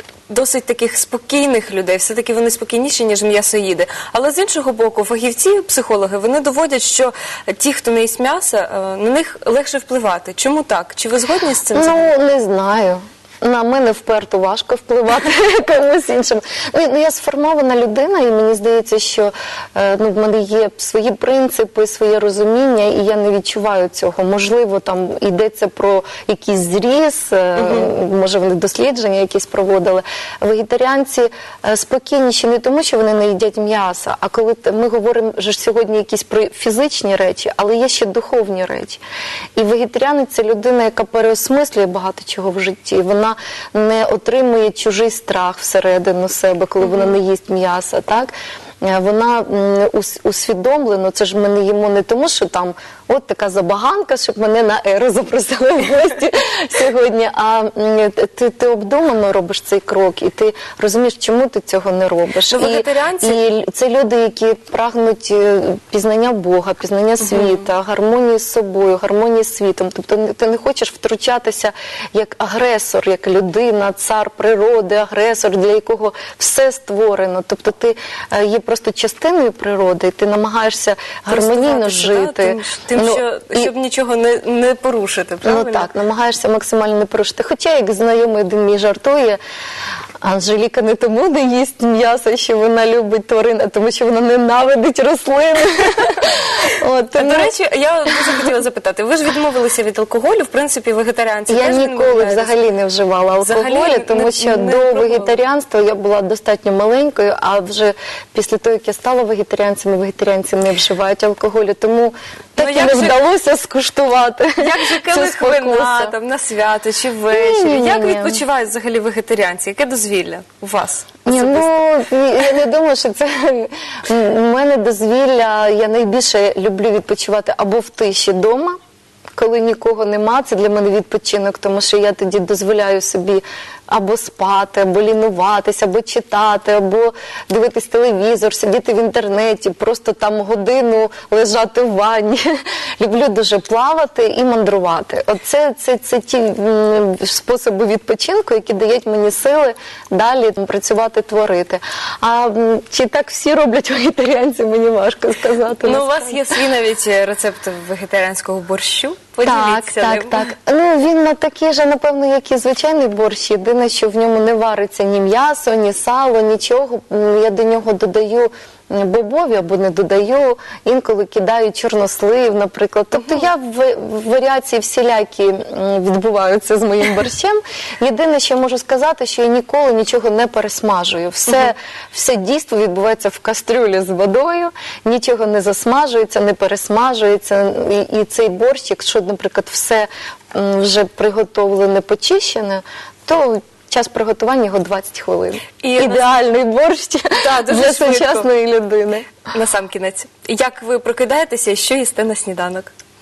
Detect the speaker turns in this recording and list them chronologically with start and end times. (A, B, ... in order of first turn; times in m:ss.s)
0:00.3-0:12.1 A
0:11.7-0:39.0 B
0:27.6-0:27.9 A
0:39.6-1:23.7 B
1:02.5-1:03.4 A
1:07.2-1:07.6 A
1:21.3-1:25.9 A
1:25.4-1:29.4 B
1:30.2-1:37.5 B
1:37.2-1:42.6 A
1:41.5-1:56.1 B
1:43.4-1:45.3 A
1:52.6-1:53.2 A
1:54.6-2:01.7 A
1:57.3-1:58.4 B
2:01.2-2:08.8 B
2:09.4-2:36.4 B
2:35.8-2:40.4 A
2:39.4-3:19.3 B
3:15.8-3:16.4 A
3:17.4-3:18.5 A
3:19.5-3:22.9 A